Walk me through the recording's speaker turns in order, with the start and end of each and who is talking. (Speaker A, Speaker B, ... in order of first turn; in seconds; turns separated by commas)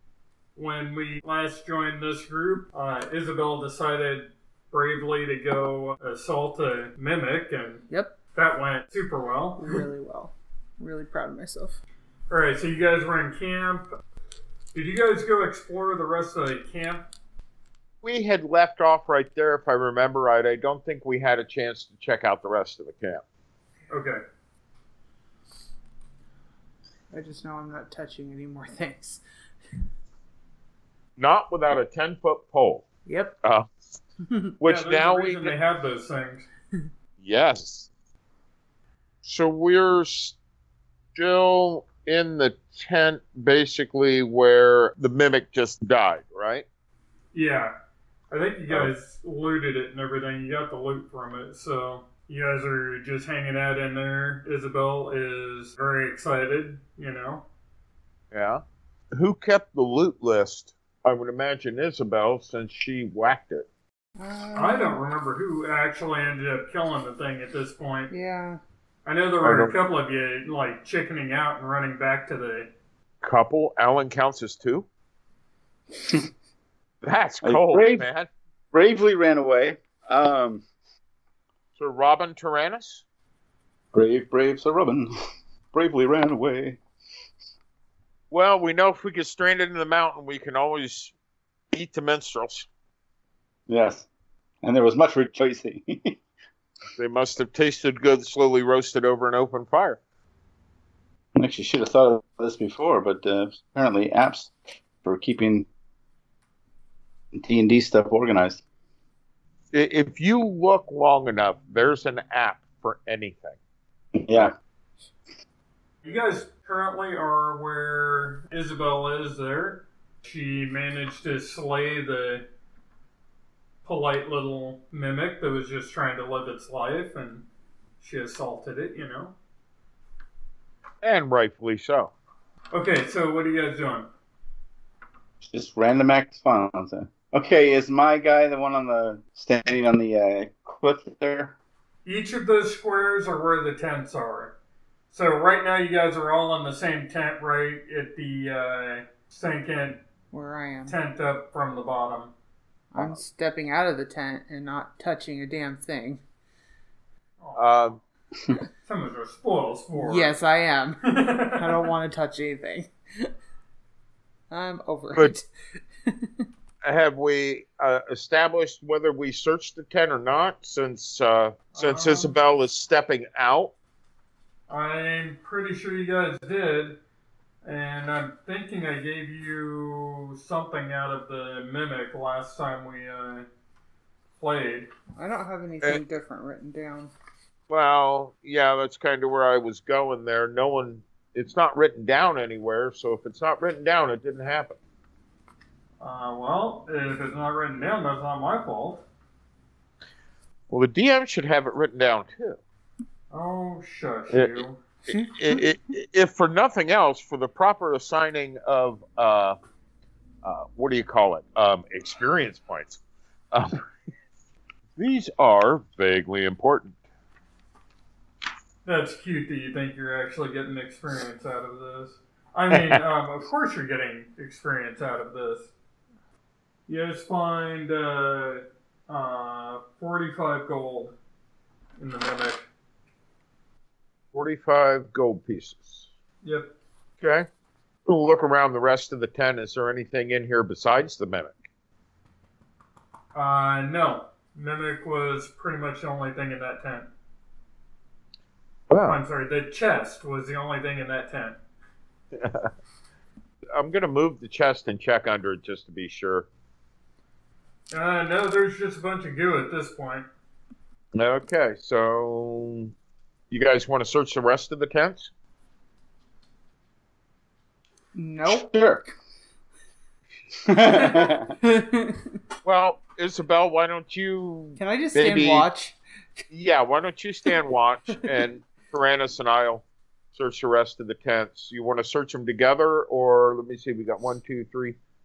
Speaker A: 0.5-9.8, Speaker B: 7.9-8.1, Speaker B: 9.6-11.8, Speaker A: 12.3-13.9, Speaker A: 14.7-17.1, Speaker C: 18.0-23.2, Speaker A: 23.9-24.2, Speaker B: 27.1-29.2, Speaker C: 31.2-32.9, Speaker B: 33.0-33.3, Speaker C: 33.4-33.7, Speaker C: 34.6-35.5, Speaker A: 34.6-36.5, Speaker C: 37.2-37.9, Speaker C: 39.2-40.4, Speaker C: 41.1-46.6, Speaker A: 47.3-47.7, Speaker A: 48.3-57.4, Speaker C: 58.3-58.6, Speaker C: 59.1-63.7, Speaker B: 64.2-65.0, Speaker A: 64.5-68.1, Speaker B: 68.1-68.6, Speaker A: 69.0-72.7, Speaker C: 69.4-69.7, Speaker C: 73.2-74.9, Speaker C: 77.0-78.3, Speaker D: 77.4-78.0, Speaker D: 78.7-80.6, Speaker C: 81.8-83.0, Speaker D: 83.9-85.1, Speaker D: 85.7-86.8, Speaker C: 88.3-91.1, Speaker C: 91.7-92.7, Speaker D: 93.7-94.0, Speaker D: 94.6-96.2, Speaker C: 97.0-100.0, Speaker D: 101.3-105.7, Speaker D: 107.3-108.6, Speaker C: 109.7-113.6, Speaker D: 114.2-114.5, Speaker A: 116.0-122.4, Speaker A: 123.8-127.4, Speaker A: 128.0-129.3, Speaker C: 131.0-132.1, Speaker A: 132.7-134.1, Speaker D: 135.4-141.5, Speaker A: 142.0-144.5, Speaker A: 145.1-150.0, Speaker B: 150.3-151.0, Speaker A: 150.8-152.3, Speaker B: 152.9-156.2, Speaker C: 152.9-153.2, Speaker A: 157.4-157.7, Speaker C: 157.6-158.0, Speaker A: 158.8-160.3, Speaker B: 159.9-161.0, Speaker A: 161.0-161.9, Speaker B: 161.5-163.3, Speaker B: 164.5-165.5, Speaker B: 166.1-166.4, Speaker C: 166.8-173.7, Speaker A: 171.7-172.3, Speaker A: 174.7-177.0, Speaker A: 177.6-183.5, Speaker A: 184.4-184.9, Speaker B: 185.2-187.1, Speaker C: 187.7-194.8, Speaker A: 196.0-199.0, Speaker C: 200.7-202.6, Speaker A: 203.3-204.8, Speaker C: 204.3-209.6, Speaker C: 210.4-213.0, Speaker C: 213.5-213.8, Speaker C: 215.0-216.9, Speaker A: 218.8-225.7, Speaker C: 222.7-223.0, Speaker A: 226.9-231.1, Speaker A: 232.0-232.7, Speaker C: 234.3-236.1, Speaker A: 236.4-236.7, Speaker C: 237.2-237.5, Speaker C: 238.1-241.5, Speaker A: 243.3-247.1, Speaker C: 248.9-249.2, Speaker A: 249.1-251.6, Speaker C: 252.3-252.7, Speaker C: 253.7-256.5, Speaker A: 257.9-260.3, Speaker C: 261.1-262.9, Speaker C: 263.5-265.3, Speaker B: 268.1-268.7, Speaker D: 268.4-269.0, Speaker D: 270.6-271.5, Speaker B: 270.7-272.4, Speaker C: 272.6-275.7, Speaker B: 274.8-276.0, Speaker C: 276.5-284.9